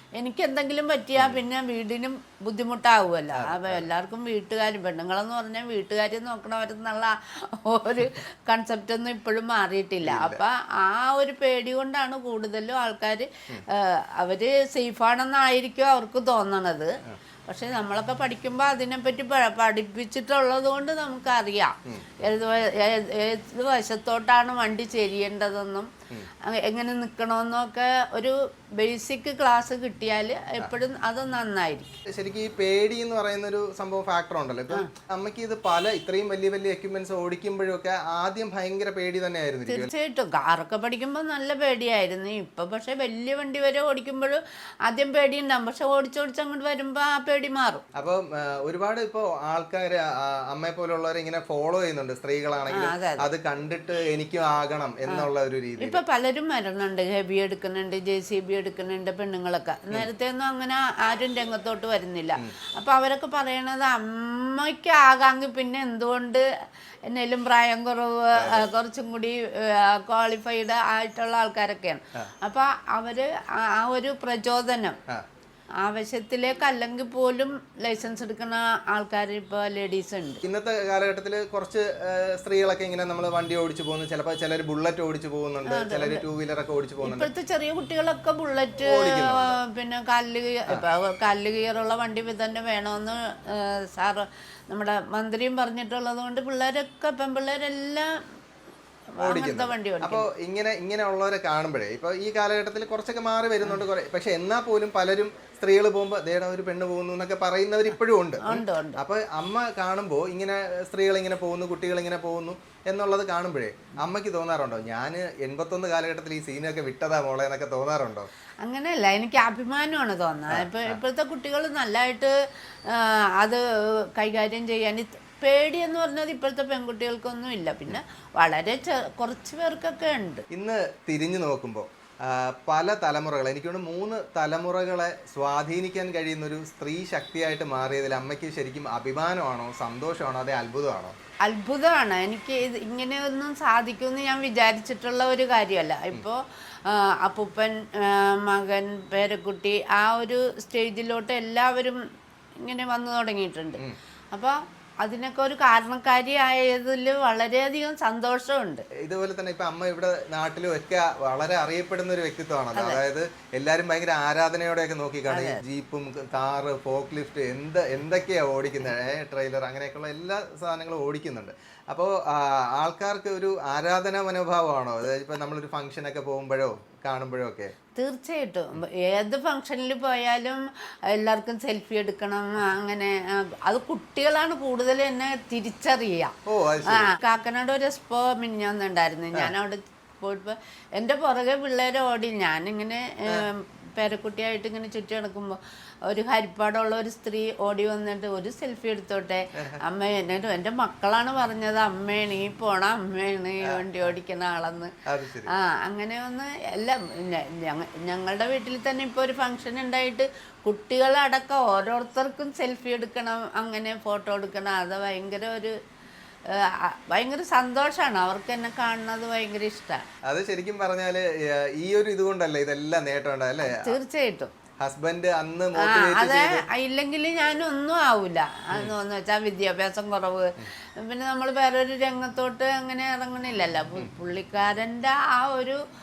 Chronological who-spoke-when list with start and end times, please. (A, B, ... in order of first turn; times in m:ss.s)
0:00.2-0:25.9 A
0:01.2-0:01.4 B
0:03.3-0:03.8 B
0:10.0-0:10.4 B
0:21.8-0:22.2 B
0:26.4-0:32.0 A
0:32.1-0:39.9 B
0:39.7-0:47.8 A
0:48.0-0:56.0 B
0:52.7-0:53.3 A
0:55.8-1:06.4 A
1:07.0-1:15.0 A
1:08.4-1:08.7 B
1:15.8-1:20.4 A
1:20.4-1:27.3 B
1:25.7-1:26.2 A
1:27.0-1:38.2 A
1:28.8-1:29.6 B
1:39.2-1:40.3 A
1:39.2-1:58.3 B
1:48.4-1:49.0 A
1:58.6-2:02.3 A
2:00.5-2:01.0 B
2:02.9-2:10.4 A
2:10.5-2:21.2 B
2:21.4-2:32.0 A
2:32.6-2:33.8 A
2:34.3-2:38.9 A
2:39.0-2:57.7 B
2:42.7-2:43.0 A
2:45.3-2:45.6 A
2:58.0-3:24.9 A
3:06.5-3:07.1 B
3:25.0-3:25.5 B
3:25.5-3:35.8 A
3:36.5-3:40.0 A
3:40.2-3:43.9 B
3:43.6-3:44.5 A
3:44.8-3:46.6 B
3:45.8-3:55.8 A